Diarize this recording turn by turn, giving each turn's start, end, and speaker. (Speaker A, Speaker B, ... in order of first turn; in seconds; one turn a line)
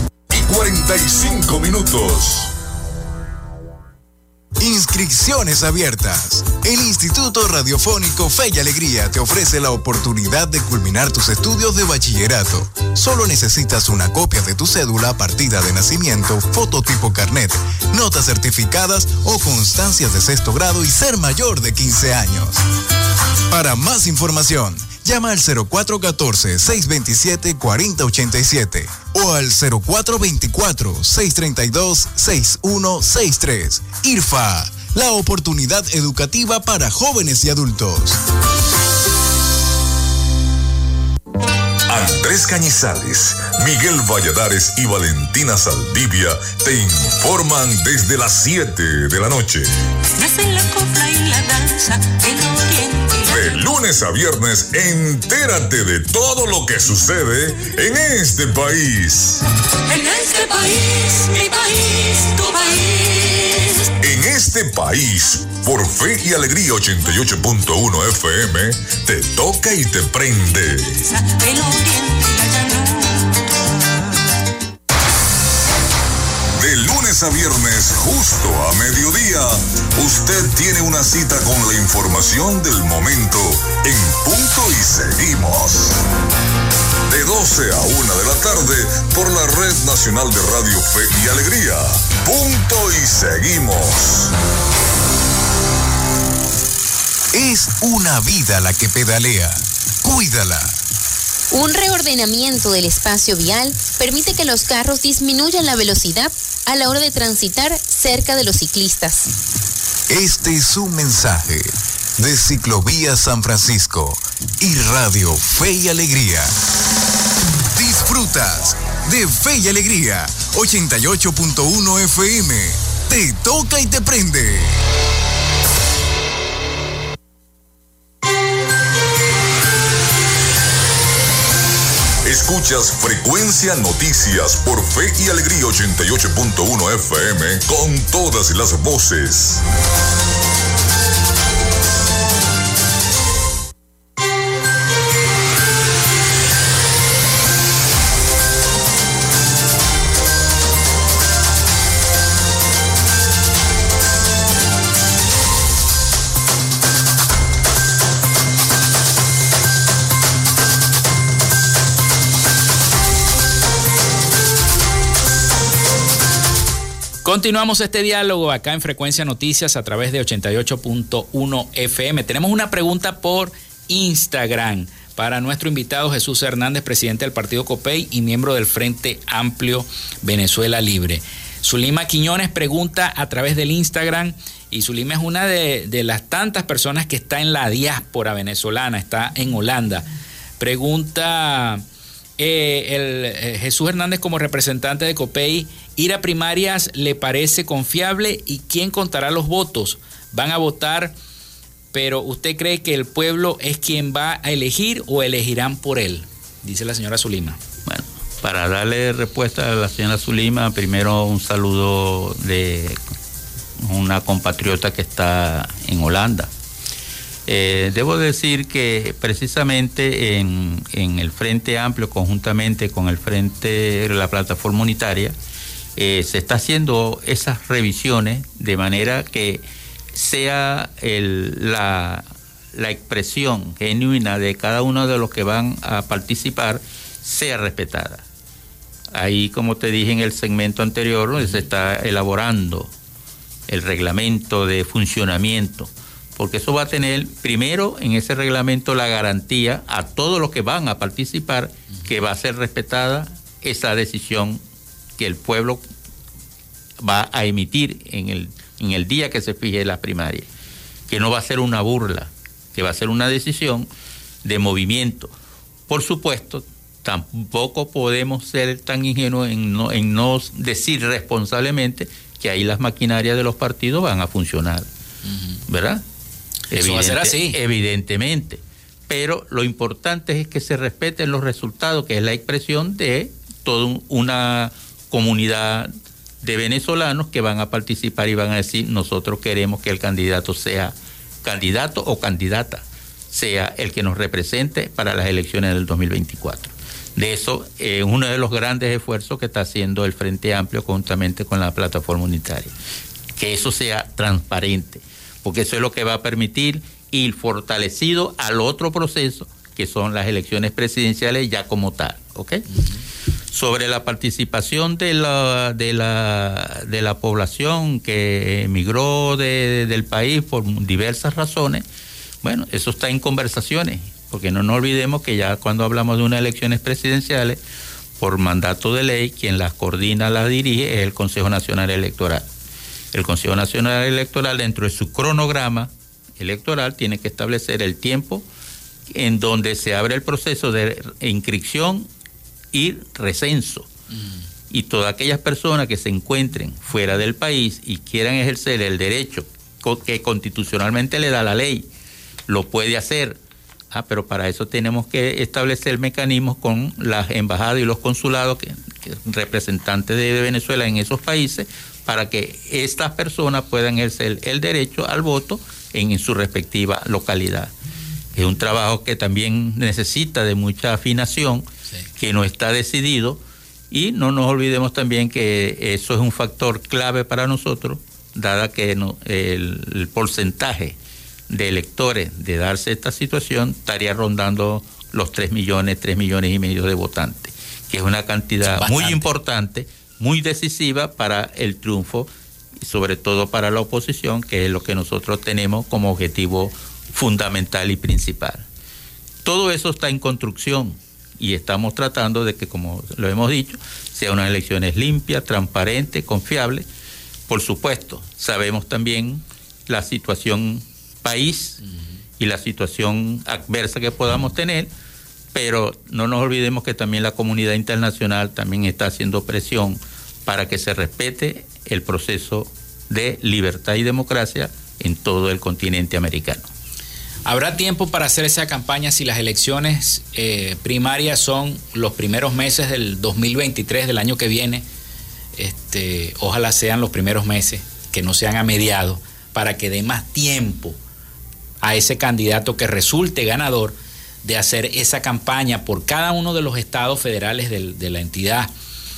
Speaker A: 0.3-2.5
Speaker B: 4.6-22.6
Speaker B: 23.5-38.2
Speaker A: 41.9-49.7
Speaker C: 50.2-53.7
Speaker A: 53.3-59.4
Speaker C: 59.9-63.9
Speaker A: 64.0-71.0
Speaker C: 70.9-73.7
Speaker A: 76.5-86.0
Speaker A: 87.1-94.3
Speaker B: 97.3-100.8
Speaker D: 101.5-109.3
Speaker B: 110.1-116.5
Speaker B: 117.7-124.8
Speaker A: 132.2-139.6
Speaker E: 167.2-190.1
Speaker E: 190.6-191.8
Speaker E: 192.4-201.1
Speaker E: 201.9-207.6
Speaker F: 207.9-213.0
Speaker F: 213.8-216.5
Speaker F: 217.5-225.3
Speaker F: 226.0-229.6
Speaker F: 230.1-238.2
Speaker F: 239.1-242.9
Speaker F: 243.7-254.6
Speaker F: 255.2-255.8
Speaker F: 257.0-260.5
Speaker F: 261.1-263.9
Speaker F: 264.4-265.3
Speaker F: 265.9-274.9
Speaker E: 275.2-275.6
Speaker F: 275.7-276.0
Speaker E: 276.7-277.6
Speaker F: 276.7-285.9
Speaker F: 286.4-302.7
Speaker F: 303.4-312.6
Speaker F: 313.5-321.8
Speaker F: 322.4-327.6
Speaker F: 328.2-332.4
Speaker F: 333.1-338.4
Speaker F: 339.1-342.1
Speaker F: 342.7-343.9
Speaker F: 344.7-351.9
Speaker F: 352.5-353.4
Speaker F: 353.9-367.7
Speaker F: 368.4-373.4
Speaker F: 373.9-381.0
Speaker F: 381.5-392.3
Speaker E: 388.6-389.3
Speaker F: 392.8-398.6
Speaker F: 399.4-406.9
Speaker F: 407.5-411.8
Speaker F: 412.4-414.9
Speaker F: 415.5-426.7
Speaker E: 427.5-434.8
Speaker E: 435.6-441.0
Speaker E: 441.8-448.7